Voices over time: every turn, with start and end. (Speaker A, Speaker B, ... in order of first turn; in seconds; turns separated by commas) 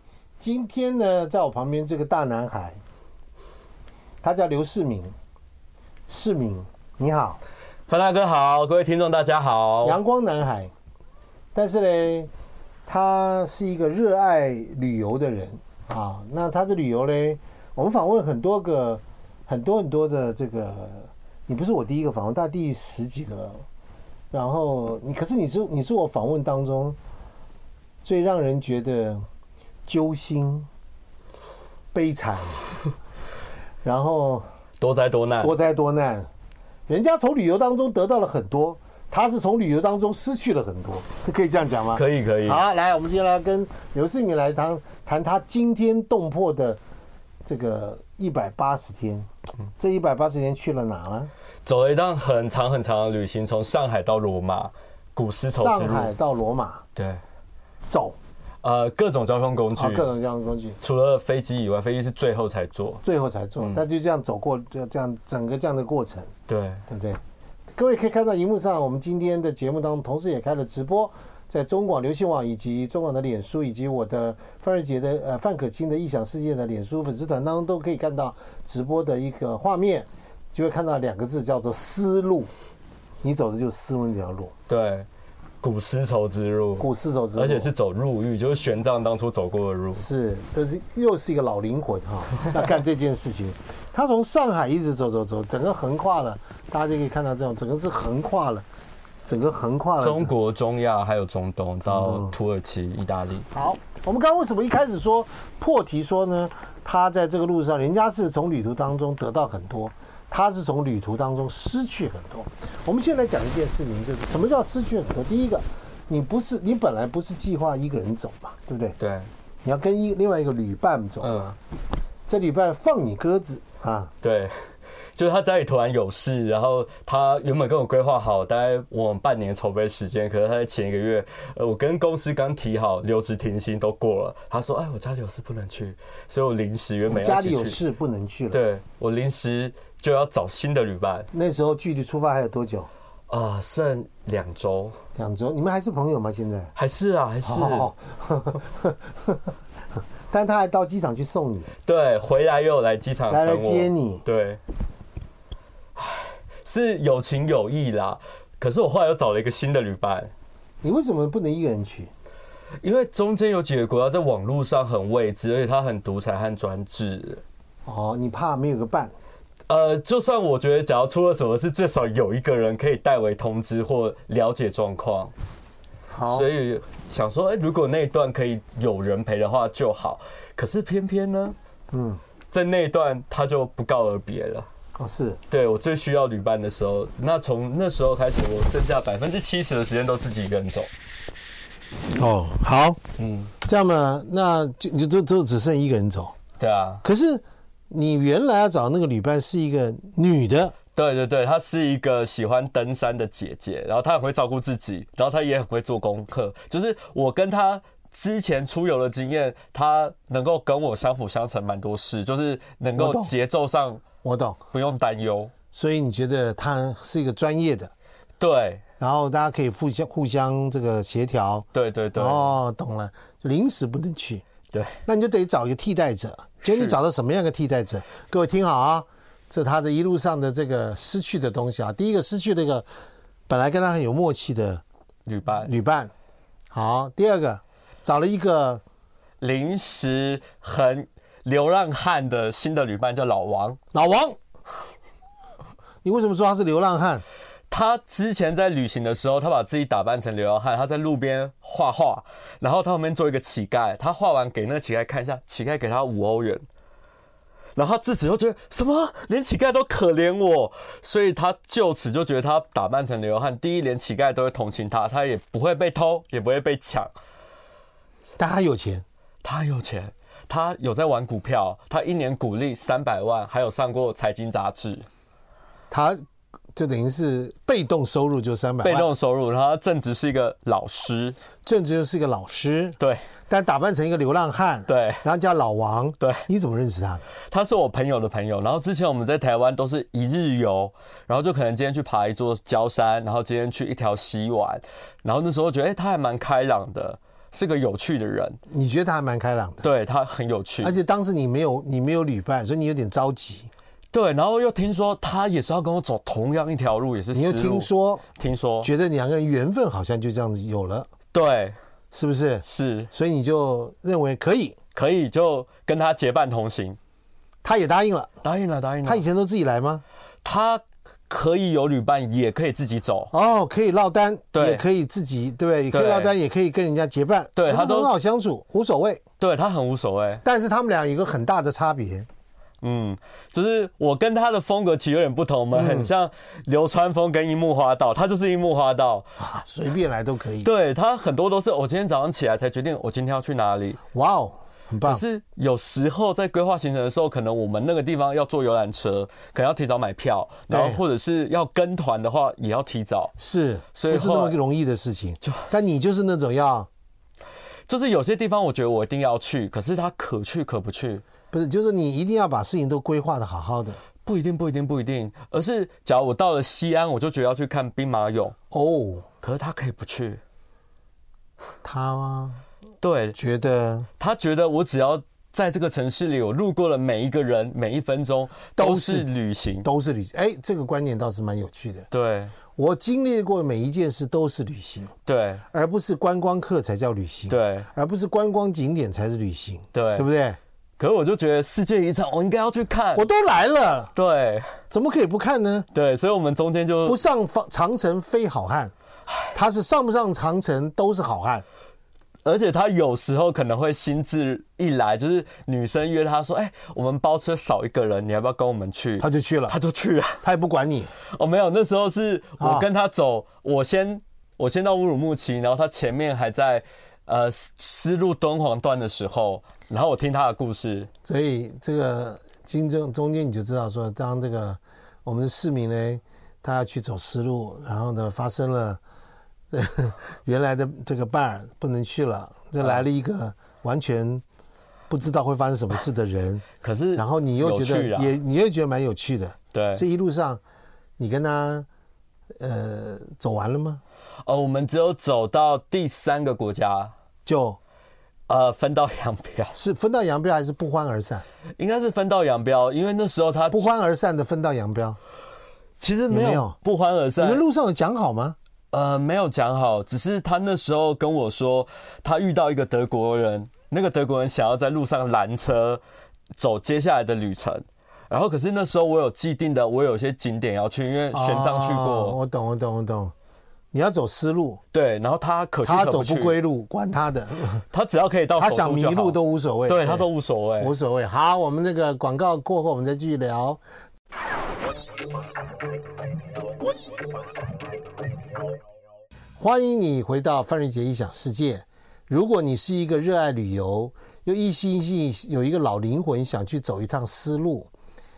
Speaker A: 0.4-2.8, Speaker A: 4.2-5.1, Speaker A: 6.1-7.4, Speaker B: 7.9-10.0, Speaker A: 9.8-10.7, Speaker A: 11.5-12.3, Speaker A: 12.9-23.6, Speaker A: 24.3-27.0, Speaker A: 28.0-29.2, Speaker A: 29.9-30.7, Speaker A: 31.9-32.6, Speaker A: 33.8-34.4, Speaker B: 34.8-35.5, Speaker A: 35.4-36.3, Speaker A: 36.9-46.8, Speaker B: 41.9-42.6, Speaker A: 47.4-49.3, Speaker A: 49.8-51.3, Speaker B: 51.6-56.1, Speaker A: 55.5-56.8, Speaker B: 57.0-57.2, Speaker A: 57.9-58.1, Speaker B: 58.6-60.1, Speaker A: 59.8-60.8, Speaker B: 60.8-63.0, Speaker A: 63.0-66.3, Speaker B: 66.5-66.8, Speaker A: 66.9-67.2, Speaker A: 67.7-82.5, Speaker A: 83.2-84.5, Speaker B: 84.7-85.1, Speaker B: 85.6-90.0, Speaker A: 86.8-87.7, Speaker A: 90.0-98.6, Speaker A: 99.2-100.3, Speaker B: 100.0-103.5, Speaker A: 101.9-102.3, Speaker A: 103.5-119.0, Speaker B: 119.0-119.3, Speaker A: 119.6-121.5, Speaker B: 121.2-121.5, Speaker A: 122.3-124.1, Speaker B: 124.2-137.8, Speaker A: 137.1-138.6, Speaker B: 138.5-141.3, Speaker A: 141.3-142.9, Speaker B: 143.3-145.0, Speaker A: 145.1-146.7, Speaker B: 146.8-147.9, Speaker A: 147.4-149.4, Speaker A: 150.3-151.7, Speaker B: 151.8-154.6, Speaker A: 153.3-154.2, Speaker B: 155.9-160.3, Speaker A: 160.8-162.1, Speaker B: 162.8-167.4, Speaker A: 167.8-169.1, Speaker B: 169.7-175.3, Speaker A: 176.1-176.5, Speaker B: 176.3-181.6, Speaker A: 181.9-182.2, Speaker B: 182.5-184.7, Speaker A: 184.9-185.4, Speaker B: 185.5-190.9, Speaker A: 192.1-193.0, Speaker B: 193.2-193.5, Speaker A: 193.6-196.3, Speaker B: 196.6-197.0, Speaker A: 197.0-200.7, Speaker B: 200.9-214.0, Speaker A: 212.9-213.3, Speaker A: 214.2-214.6, Speaker B: 214.7-215.5, Speaker A: 215.7-217.9, Speaker B: 218.4-218.8, Speaker A: 219.0-224.4, Speaker B: 221.7-222.5, Speaker B: 224.7-225.0, Speaker A: 225.1-232.8, Speaker B: 226.6-227.0, Speaker A: 233.5-234.8, Speaker B: 235.2-235.7, Speaker A: 235.6-236.1, Speaker A: 236.7-238.8, Speaker B: 239.4-243.8, Speaker A: 243.9-244.4, Speaker A: 246.0-247.2, Speaker B: 247.7-256.6, Speaker B: 257.7-267.1, Speaker A: 268.4-269.0, Speaker B: 269.4-275.1, Speaker A: 275.9-276.2, Speaker A: 276.7-279.1, Speaker B: 278.8-281.4, Speaker A: 281.6-283.0, Speaker B: 283.0-283.2, Speaker A: 283.5-287.2, Speaker B: 284.9-285.2, Speaker B: 286.2-286.4, Speaker B: 287.5-298.6, Speaker A: 298.7-299.9, Speaker B: 299.8-300.9, Speaker A: 300.8-303.7, Speaker B: 304.1-308.9, Speaker A: 307.3-308.2, Speaker A: 308.8-311.1, Speaker B: 311.3-311.8, Speaker A: 312.1-314.8, Speaker B: 312.6-313.1, Speaker B: 314.9-317.0, Speaker A: 317.6-318.3, Speaker B: 318.4-319.2, Speaker A: 319.0-320.0, Speaker B: 320.4-323.3, Speaker A: 323.3-329.2, Speaker B: 324.5-324.8, Speaker B: 325.9-326.4, Speaker B: 327.6-328.1, Speaker B: 329.4-330.4, Speaker A: 330.4-332.3, Speaker B: 332.8-339.3, Speaker A: 335.7-336.1, Speaker A: 339.4-340.7, Speaker B: 340.6-344.0, Speaker A: 344.1-345.2, Speaker B: 345.0-353.3, Speaker A: 350.7-351.0, Speaker A: 353.4-356.9, Speaker B: 353.9-354.6, Speaker B: 357.9-361.2, Speaker A: 361.5-364.0, Speaker B: 364.2-368.6, Speaker A: 368.7-369.3, Speaker B: 369.4-370.4, Speaker A: 371.8-372.6, Speaker B: 373.0-373.4, Speaker A: 373.3-374.1, Speaker B: 374.2-379.9, Speaker A: 378.8-379.3, Speaker A: 379.8-382.1, Speaker B: 382.1-382.5, Speaker A: 382.8-385.1, Speaker B: 385.2-385.6, Speaker A: 385.7-390.6, Speaker B: 387.5-387.9, Speaker B: 389.9-390.3, Speaker B: 391.0-393.2, Speaker A: 393.1-394.1, Speaker B: 394.1-394.8, Speaker A: 394.9-395.9, Speaker B: 395.9-397.2, Speaker A: 397.1-398.9, Speaker A: 399.5-401.6, Speaker B: 402.4-410.4, Speaker A: 409.2-409.8, Speaker A: 410.4-411.1, Speaker B: 411.2-421.1, Speaker A: 412.6-412.9, Speaker A: 421.2-429.0, Speaker A: 429.7-434.4, Speaker A: 435.1-440.6, Speaker B: 436.8-438.3, Speaker B: 439.7-440.0, Speaker A: 441.2-441.9, Speaker A: 442.6-444.0, Speaker B: 444.4-447.1, Speaker A: 447.4-447.8, Speaker B: 448.5-449.8, Speaker A: 449.7-451.4, Speaker B: 451.8-453.9, Speaker A: 453.7-455.2, Speaker B: 456.0-457.6, Speaker A: 456.3-456.8, Speaker A: 457.4-458.6, Speaker B: 458.9-466.0, Speaker B: 466.5-472.4, Speaker A: 471.3-473.3, Speaker A: 473.9-474.8, Speaker B: 474.9-476.6, Speaker A: 475.8-477.8, Speaker B: 477.9-480.9, Speaker A: 478.6-480.3, Speaker A: 480.8-483.8, Speaker A: 489.6-497.9